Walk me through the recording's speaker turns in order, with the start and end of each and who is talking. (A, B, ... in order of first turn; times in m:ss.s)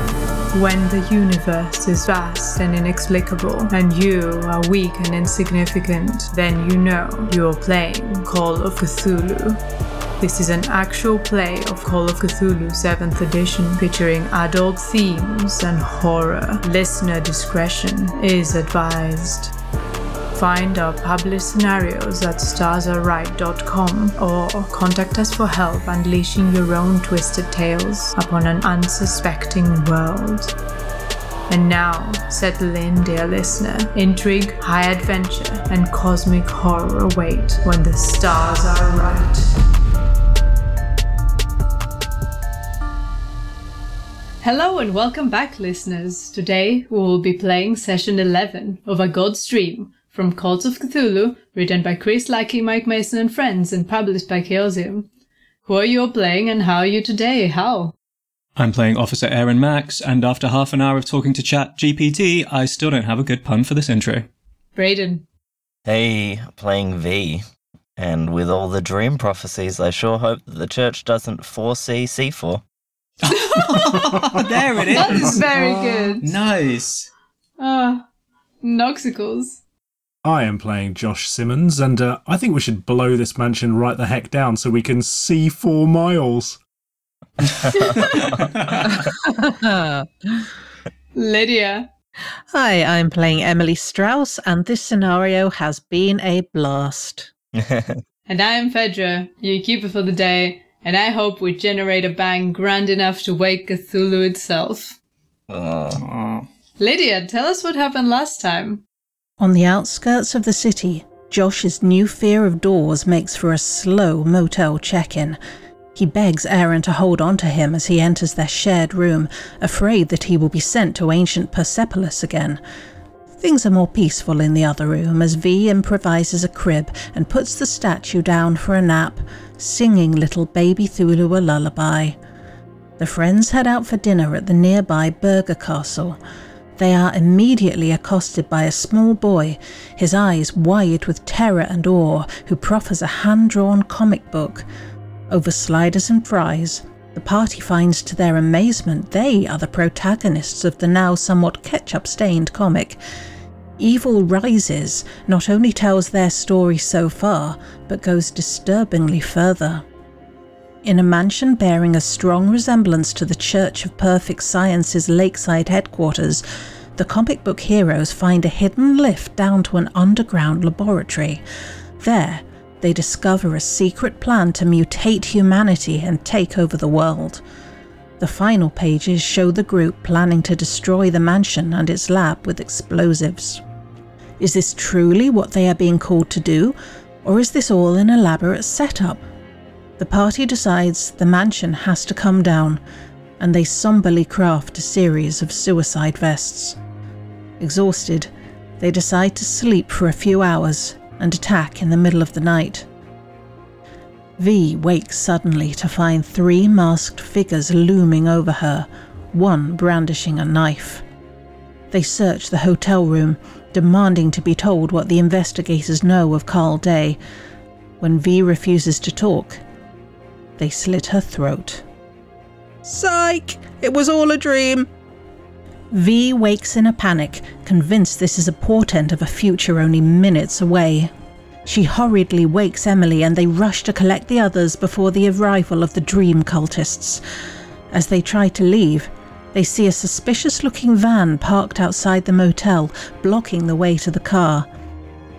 0:00.5-0:09.6 A
0:10.2-0:19.5 A
0:20.3-0:30.5 A
0:31.5-0:39.5 A
0:44.4-0:55.1 A
0:55.6-0:57.9 A
0:58.6-1:04.3 B
1:04.8-1:05.2 A
1:05.8-1:07.4 C
1:08.0-1:12.6 C
1:13.2-1:17.1 B
1:13.3-1:14.2 A
1:13.9-1:15.2 D
1:14.9-1:16.3 A
1:17.6-1:18.0 A
1:18.6-1:19.6 A
1:20.2-1:26.6 D
1:27.5-1:29.0 C
1:28.4-1:28.6 B
1:28.9-1:30.5 E
1:31.1-1:31.9 A
1:32.5-1:37.3 E
1:37.5-1:38.0 C
1:38.3-1:45.0 A
1:45.5-1:46.0 C
1:45.9-1:46.5 B
1:46.8-1:48.8 A
1:49.4-1:55.4 E
1:55.9-2:02.6 E
2:03.4-2:12.2 E
2:13.0-2:16.2 E
2:16.8-2:24.6 E
2:25.3-2:33.0 E
2:33.8-2:39.8 E
2:40.8-2:46.4 E
2:47.0-2:51.4 E
2:52.0-2:57.4 E
2:58.2-3:03.6 E
3:04.4-3:09.2 E
3:10.0-3:12.8 E
3:13.4-3:16.8 E
3:17.6-3:22.9 E
3:24.4-3:31.0 E
3:31.9-3:37.2 E
3:38.0-3:39.6 E
3:40.6-3:41.8 E
3:42.8-3:44.9 E
3:45.9-3:51.1 E
3:51.6-3:57.2 E
3:57.9-4:04.7 E